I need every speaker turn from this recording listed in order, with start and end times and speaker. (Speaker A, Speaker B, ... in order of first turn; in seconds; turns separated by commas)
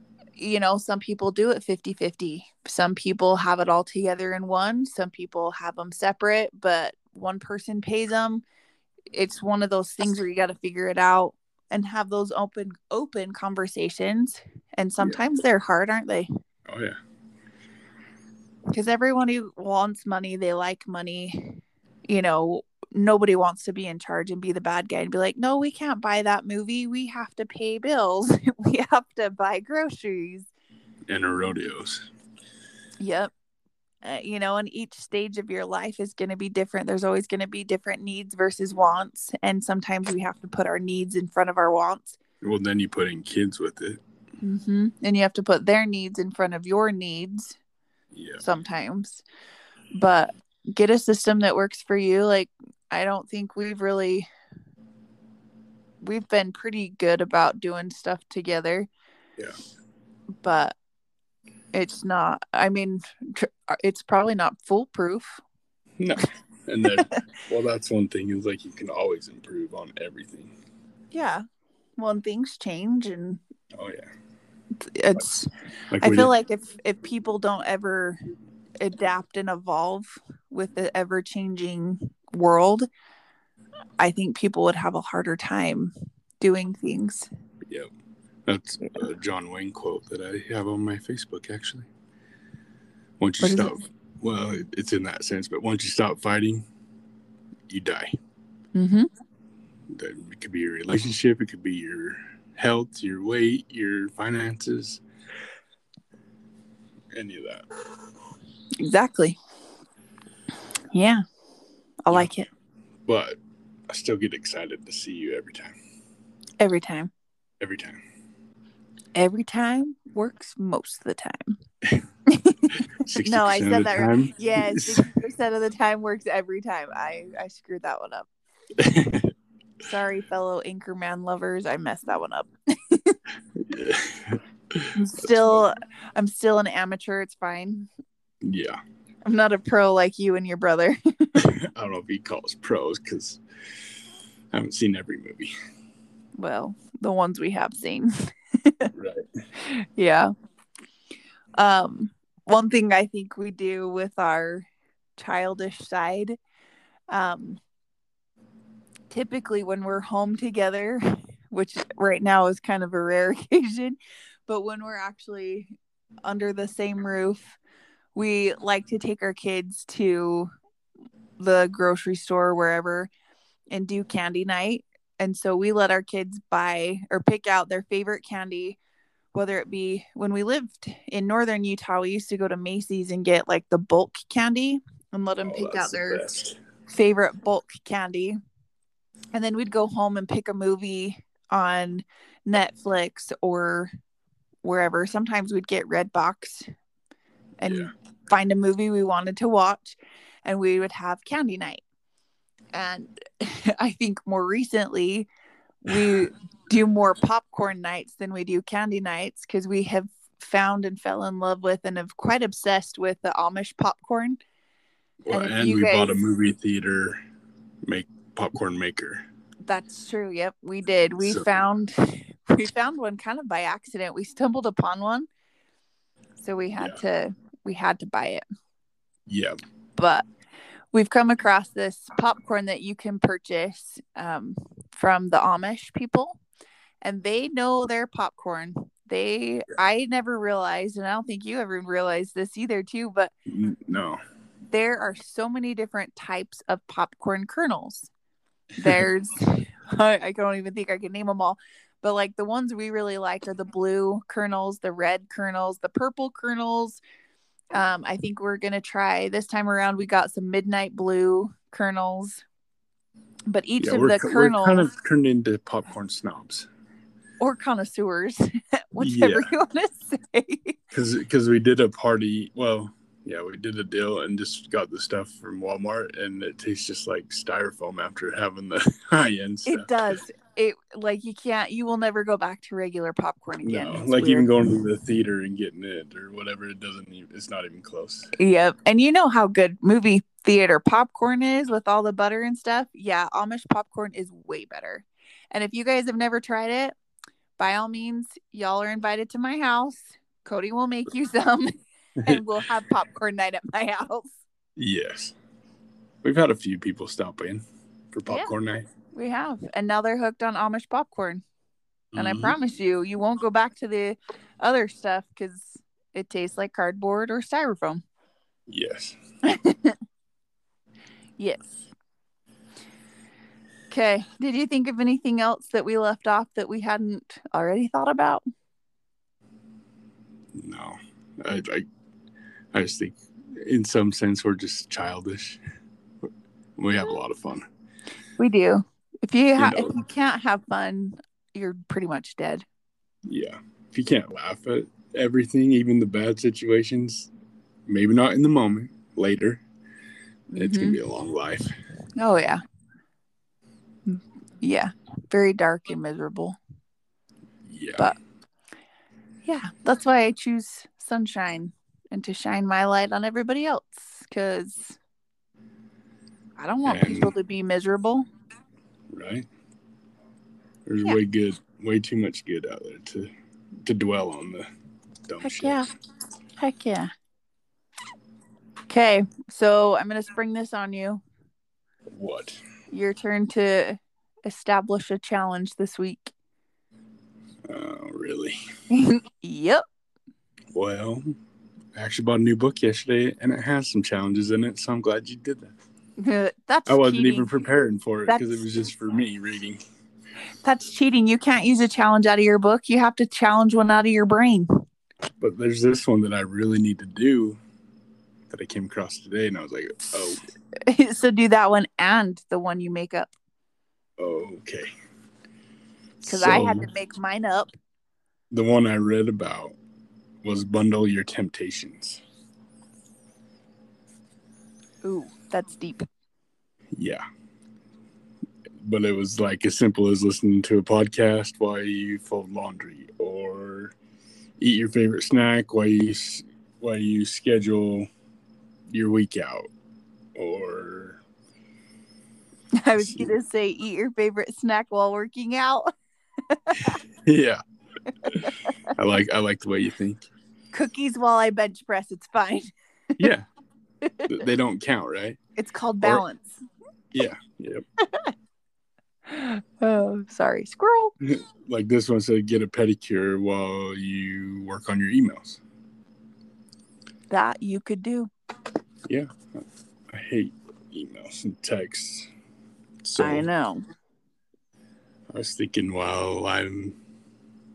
Speaker A: 0.4-8.4, Speaker A: 9.1-16.3, Speaker B: 16.7-17.0, Speaker A: 18.7-30.5, Speaker B: 31.1-32.1, Speaker A: 33.0-33.3, Speaker A: 34.0-42.2, Speaker B: 42.4-44.0, Speaker A: 44.4-47.6, Speaker B: 48.1-48.4, Speaker A: 48.4-49.2, Speaker A: 49.9-54.3, Speaker A: 56.0-58.9, Speaker A: 60.4-60.8, Speaker A: 61.7-65.4, Speaker B: 66.0-70.5, Speaker A: 66.9-67.2, Speaker A: 71.1-71.4, Speaker A: 72.0-73.4, Speaker B: 73.7-74.1, Speaker A: 74.8-75.5, Speaker B: 75.9-76.3, Speaker A: 76.0-78.2, Speaker A: 78.8-82.9, Speaker A: 84.0-87.3, Speaker B: 88.5-91.9, Speaker B: 93.2-96.6, Speaker A: 93.4-93.8, Speaker B: 97.7-98.2, Speaker A: 98.8-99.1, Speaker B: 99.9-105.0, Speaker B: 107.1-107.6, Speaker A: 108.8-109.4, Speaker A: 110.9-111.2, Speaker A: 112.1-112.5, Speaker B: 113.1-113.4, Speaker B: 113.9-115.8, Speaker A: 116.6-117.1, Speaker B: 117.6-118.0, Speaker A: 119.1-121.6, Speaker A: 122.3-128.3, Speaker B: 123.0-125.1, Speaker B: 128.8-129.3, Speaker A: 129.8-133.2, Speaker B: 133.6-135.6, Speaker A: 134.9-137.9, Speaker B: 138.4-138.8, Speaker A: 139.3-141.4, Speaker B: 141.4-143.4, Speaker B: 144.5-145.5, Speaker A: 146.4-148.9, Speaker B: 148.9-149.3, Speaker A: 149.6-150.3, Speaker A: 151.6-156.4, Speaker A: 157.1-157.6, Speaker A: 159.1-165.7, Speaker A: 166.2-167.6, Speaker A: 168.1-170.5, Speaker A: 171.4-173.1, Speaker A: 173.7-178.8, Speaker A: 179.3-186.3, Speaker B: 185.4-186.6, Speaker A: 186.9-188.4, Speaker A: 189.3-193.9, Speaker A: 194.6-196.7, Speaker A: 197.6-201.8, Speaker A: 202.7-205.3, Speaker A: 205.8-214.4, Speaker B: 215.2-217.2, Speaker A: 215.3-216.2, Speaker B: 217.8-219.2, Speaker A: 219.7-225.3, Speaker B: 221.2-221.6, Speaker A: 226.4-228.4, Speaker B: 229.3-229.6, Speaker A: 230.0-230.2, Speaker A: 230.9-236.4, Speaker A: 237.0-243.3, Speaker B: 243.5-244.2, Speaker A: 244.7-248.1, Speaker B: 248.8-249.1, Speaker A: 248.8-257.0, Speaker A: 257.7-262.4, Speaker A: 263.5-264.9, Speaker B: 263.8-266.7, Speaker A: 267.4-270.8, Speaker B: 269.0-269.5, Speaker B: 270.9-279.9, Speaker A: 279.7-284.5, Speaker B: 283.6-288.3, Speaker A: 288.4-296.9, Speaker A: 297.6-301.7, Speaker A: 302.2-304.4, Speaker B: 304.8-305.4, Speaker B: 306.2-308.9, Speaker A: 308.3-308.5, Speaker A: 309.1-311.4, Speaker B: 312.1-312.6, Speaker A: 312.1-318.0, Speaker B: 318.7-319.2, Speaker A: 319.4-320.0, Speaker A: 321.4-321.8, Speaker A: 323.9-328.4, Speaker B: 330.5-331.9, Speaker B: 332.7-335.6, Speaker B: 336.2-337.6, Speaker A: 338.4-342.6, Speaker B: 339.6-339.9, Speaker B: 343.2-347.3, Speaker B: 347.9-349.6, Speaker A: 350.5-351.0, Speaker B: 350.6-351.7, Speaker A: 352.2-352.6, Speaker A: 354.1-356.6, Speaker B: 357.6-358.1, Speaker A: 359.4-365.0, Speaker A: 366.6-368.3, Speaker B: 366.9-367.3, Speaker B: 369.1-369.5, Speaker B: 370.9-373.3, Speaker B: 373.8-374.7, Speaker B: 375.3-375.8, Speaker A: 375.4-375.9, Speaker A: 376.6-377.1, Speaker A: 378.9-381.2, Speaker B: 382.1-382.6, Speaker A: 382.9-386.3, Speaker B: 387.6-388.6, Speaker A: 388.9-389.8, Speaker B: 390.7-391.3, Speaker B: 391.9-395.7, Speaker A: 396.2-397.7, Speaker B: 396.9-399.8, Speaker A: 398.3-398.6, Speaker A: 400.6-404.7, Speaker B: 405.4-407.6, Speaker B: 408.5-410.4, Speaker A: 410.0-413.3, Speaker B: 414.2-414.9, Speaker B: 416.2-416.9, Speaker A: 416.2-417.7, Speaker B: 418.5-419.8, Speaker B: 420.4-422.2, Speaker A: 425.0-426.1, Speaker B: 426.9-427.2, Speaker B: 428.8-433.9, Speaker B: 434.6-438.1, Speaker B: 438.9-439.7, Speaker B: 440.4-441.2, Speaker A: 442.8-445.9, Speaker B: 443.0-443.3, Speaker A: 446.5-447.0, Speaker B: 447.2-447.6, Speaker A: 448.3-448.8, Speaker B: 448.3-450.3, Speaker A: 450.7-452.7, Speaker B: 453.2-453.5, Speaker A: 454.0-454.3, Speaker B: 454.2-455.4, Speaker A: 455.6-456.6, Speaker B: 457.1-457.8, Speaker A: 458.0-458.3, Speaker A: 459.2-461.1, Speaker B: 461.2-465.6, Speaker A: 467.3-468.3, Speaker B: 469.1-472.3, Speaker B: 473.0-473.5, Speaker A: 473.2-473.8, Speaker B: 475.3-477.0